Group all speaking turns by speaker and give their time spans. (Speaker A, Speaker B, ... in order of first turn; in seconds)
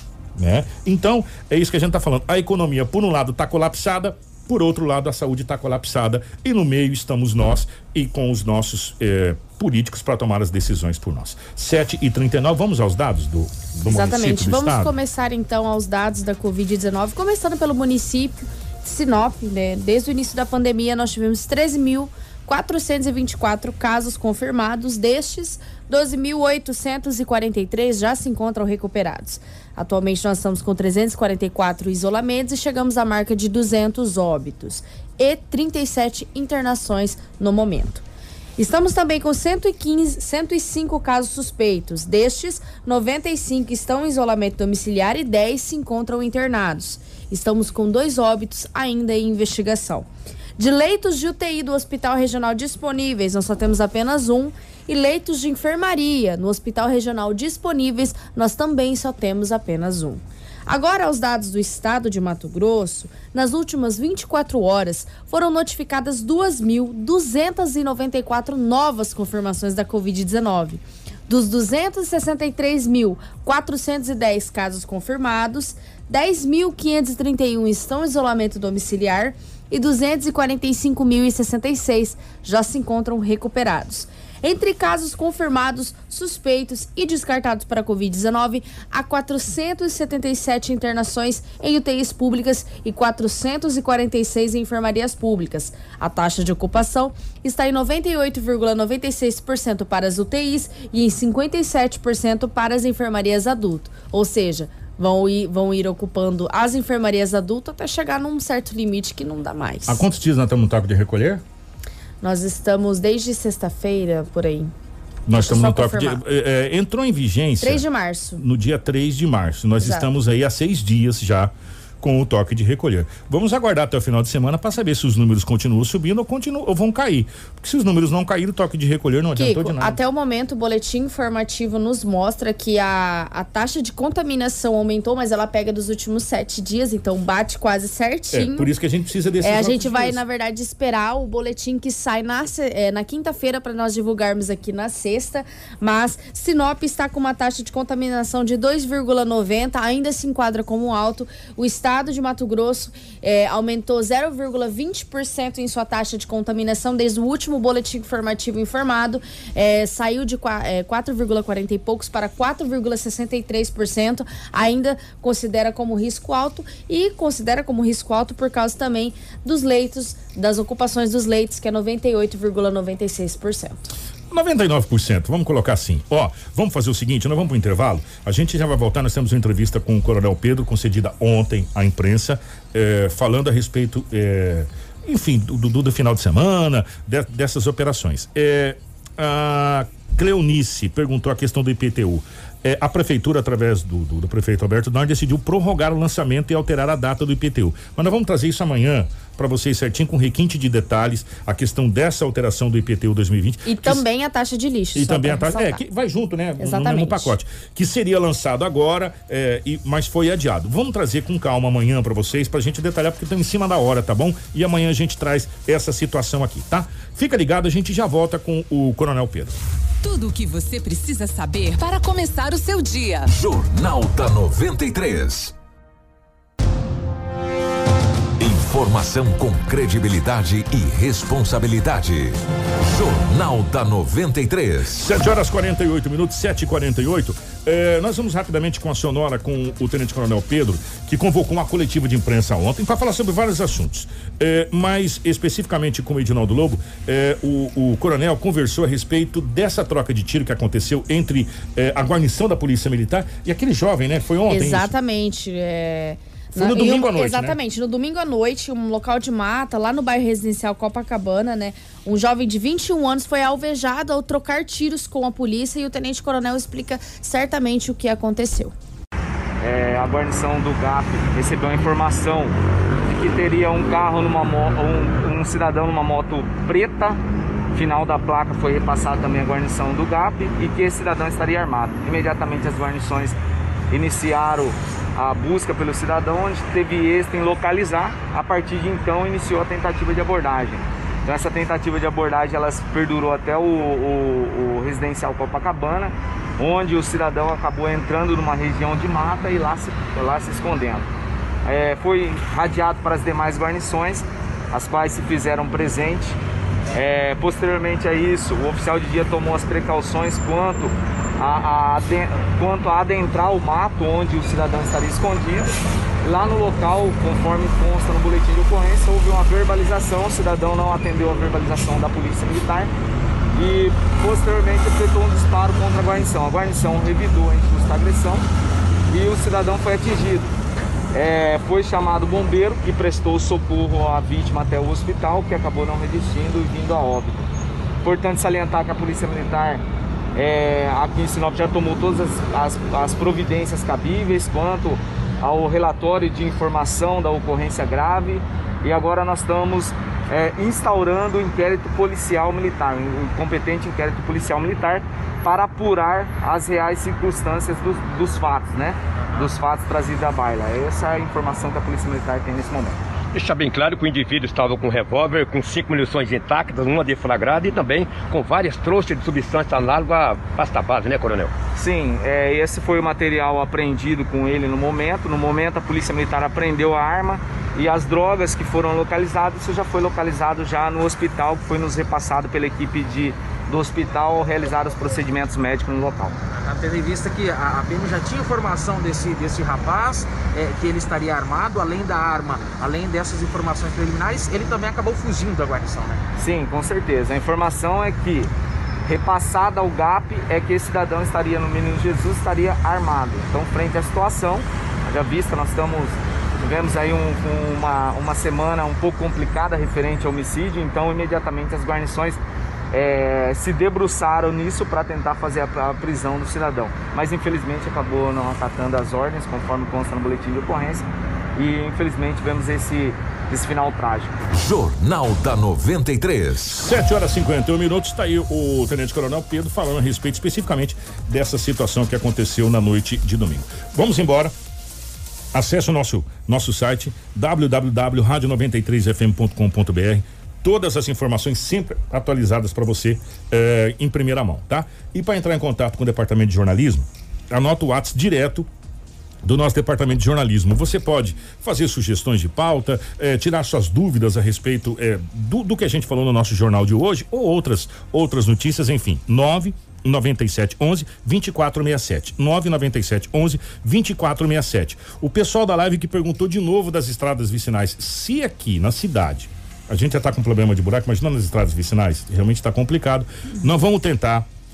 Speaker A: 0.4-14.9, 109.9-111.4, 115.3-117.8, 118.4-130.0, 138.3-140.2, 174.3-204.0, 204.9-219.6, 234.9-254.9, 256.6-257.6, 426.7-434.5, 435.5-448.7, 449.4-474.5
Speaker B: 13.8-38.0, 38.6-50.1, 50.6-110.0, 112.2-114.7, 115.3-116.2, 117.6-118.4, 119.8-120.1, 129.3-138.7, 139.4-173.8, 203.7-205.8, 206.6-207.3, 254.5-268.8
Speaker C: 220.0-223.3
Speaker D: 223.3-225.5, 228.4-235.0, 424.5-426.8
Speaker E: 269.6-277.2, 277.8-283.4, 283.9-301.1, 301.6-306.4, 306.9-315.7, 316.2-322.9, 323.6-328.5, 329.1-330.4, 331.1-337.4, 338.0-339.8, 340.4-363.0, 371.8-386.4, 396.4-398.5, 399.1-412.4, 412.9-424.4
Speaker F: 363.3-371.5
Speaker G: 386.6-396.2